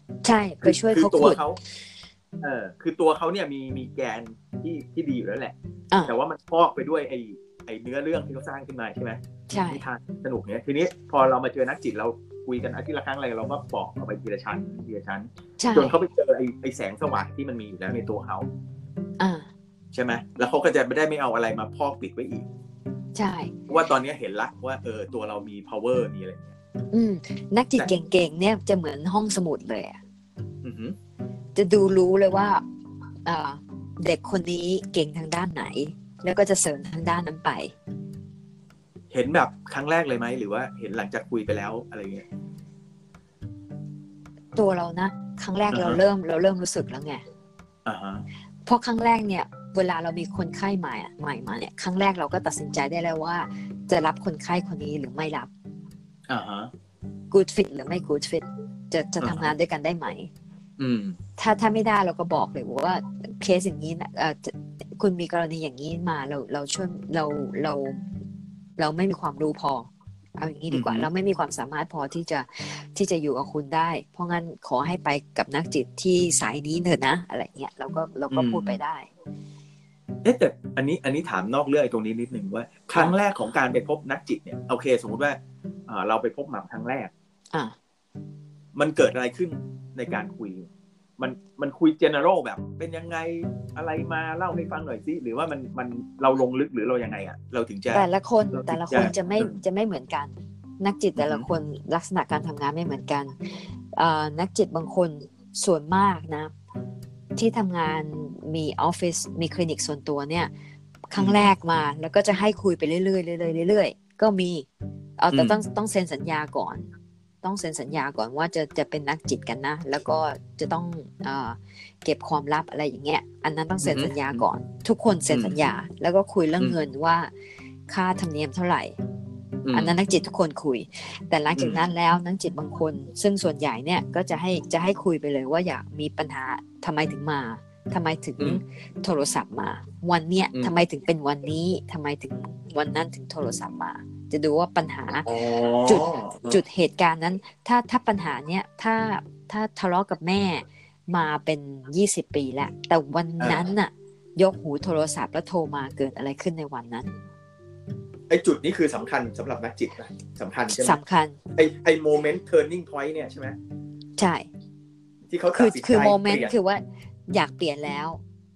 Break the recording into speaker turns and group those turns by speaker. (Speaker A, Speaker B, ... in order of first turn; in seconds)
Speaker A: 0.2-1.4, 9.5-9.8, 15.6-15.9, 19.2-19.5, 23.1-23.5, 26.9-30.0, 31.5-32.6, 33.2-37.7, 44.5-47.2, 48.6-55.5, 57.3-60.3, 61.4-68.0, 68.8-79.1, 97.9-103.3, 103.9-106.5, 107.3-110.5, 111.1-114.7, 115.2-116.9, 117.4-127.3, 127.9-128.9, 129.7-145.3, 145.8-157.1, 160.7-161.4, 164.2-164.5, 165.5-168.2
Speaker B: 0.6-1.6, 2.4-5.5, 6.0-18.5, 19.9-22.4, 23.7-26.5, 30.6-30.9, 39.1-42.2, 45.7-46.0, 47.9-48.2, 56.3-56.7, 59.2-59.5, 60.8-61.2, 70.7-71.1, 78.3-78.8, 80.2-87.1, 88.7-99.6, 101.2-101.5, 111.2-111.5, 115.3-115.6, 123.8-124.4, 125.3-125.6, 129.6-130.0, 131.6-131.8, 145.2-146.6, 153.4-153.7, 158.3-161.0, 161.6-163.6, 165.3-166.5